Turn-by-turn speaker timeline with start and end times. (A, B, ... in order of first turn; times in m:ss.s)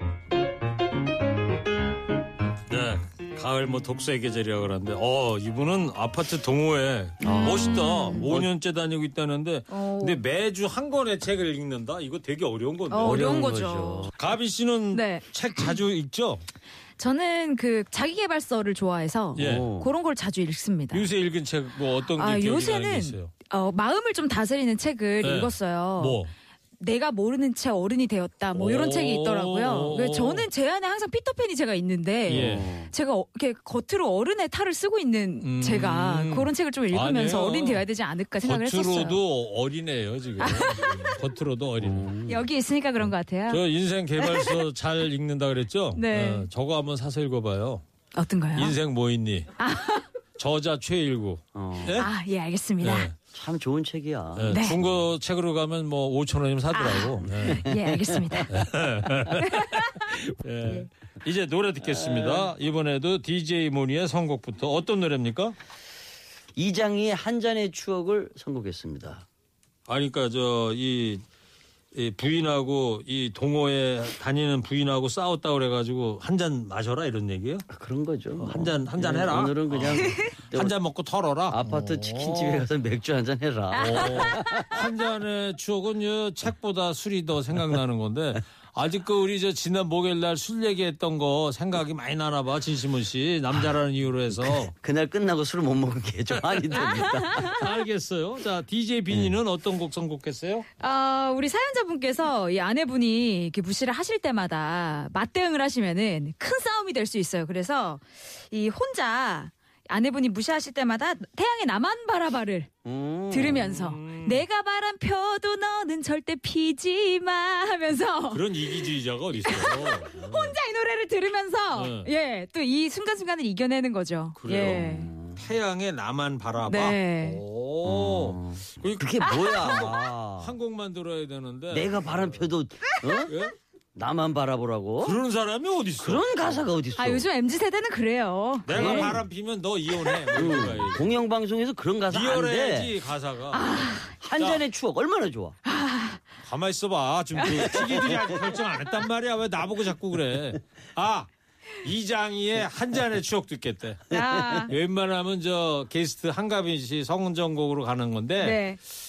0:02.7-0:13.4 A
0:07.2-0:08.5 B
0:07.2-0:08.3 C
0:09.7-0:10.2 C
0:12.9-0:14.1 C
0:13.0-0:14.1 B
0:14.2-0:16.4 A
0:14.9-0:15.8 C
0:17.0-0:21.1 C
0:19.4-0:19.9 B
0:19.4-0:19.7 A
0:20.9-0:23.3 A
0:22.2-0:26.2 C
0:25.2-0:26.3 A
0:26.8-0:39.2 C
0:28.6-0:30.5 A
0:32.3-0:32.7 A
0:32.3-0:32.9 B
0:35.4-0:37.8 A
0:38.4-0:42.1 A
0:40.4-0:41.1 C
0:41.8-0:42.4 B
0:42.3-0:43.6 C
0:43.5-0:47.8 A
0:44.2-0:44.6 C
0:46.0-0:46.5 C
0:48.1-0:48.8 C
0:48.6-0:49.5 A
0:49.6-0:50.1 C
0:50.4-0:52.1 A
0:51.5-0:52.1 B
0:52.0-0:53.1 C
0:52.8-0:53.2 A
0:53.3-0:54.9 B
0:54.4-0:57.7 A
0:54.5-0:54.8 C
0:56.7-0:58.5 C
0:57.4-0:58.6 B
0:58.5-1:05.6 A
0:59.4-1:00.1 C
1:01.8-1:02.5 B
1:06.6-1:09.3 B
1:09.9-1:11.2 A
1:11.9-1:17.6 A
1:17.7-1:20.8 B
1:18.4-1:22.6 A
1:20.0-1:20.3 C
1:21.5-1:24.9 B
1:23.8-1:24.3 C
1:23.8-1:34.7 A
1:34.4-1:37.6 B
1:36.3-1:40.7 A
1:37.0-1:37.6 C
1:40.8-1:52.7 C
1:52.8-1:53.8 B
1:53.3-1:58.9 C
1:53.5-1:54.4 A
1:58.3-2:00.1 A
1:59.4-2:05.1 C
2:00.2-2:00.5 B
2:01.8-2:02.1 A
2:04.4-2:12.5 A
2:04.6-2:05.4 B
2:06.7-2:07.4 C
2:07.8-2:10.6 B
2:09.2-2:09.7 C
2:11.7-2:13.3 B
2:13.3-2:13.5 A
2:14.0-2:15.2 B
2:15.0-2:16.6 A
2:16.0-2:17.2 B
2:17.0-2:19.2 C
2:18.7-2:21.1 A
2:18.7-2:19.2 B
2:20.3-2:22.9 B
2:22.1-2:24.6 A
2:23.5-2:24.1 C
2:24.1-2:25.6 B
2:25.7-2:26.2 C
2:26.4-2:31.3 A
2:27.4-2:27.8 C
2:27.8-2:28.4 B
2:31.8-2:34.0 A
2:34.1-2:34.7 C
2:34.1-2:34.6 B
2:34.7-2:38.6 A
2:38.4-2:38.8 C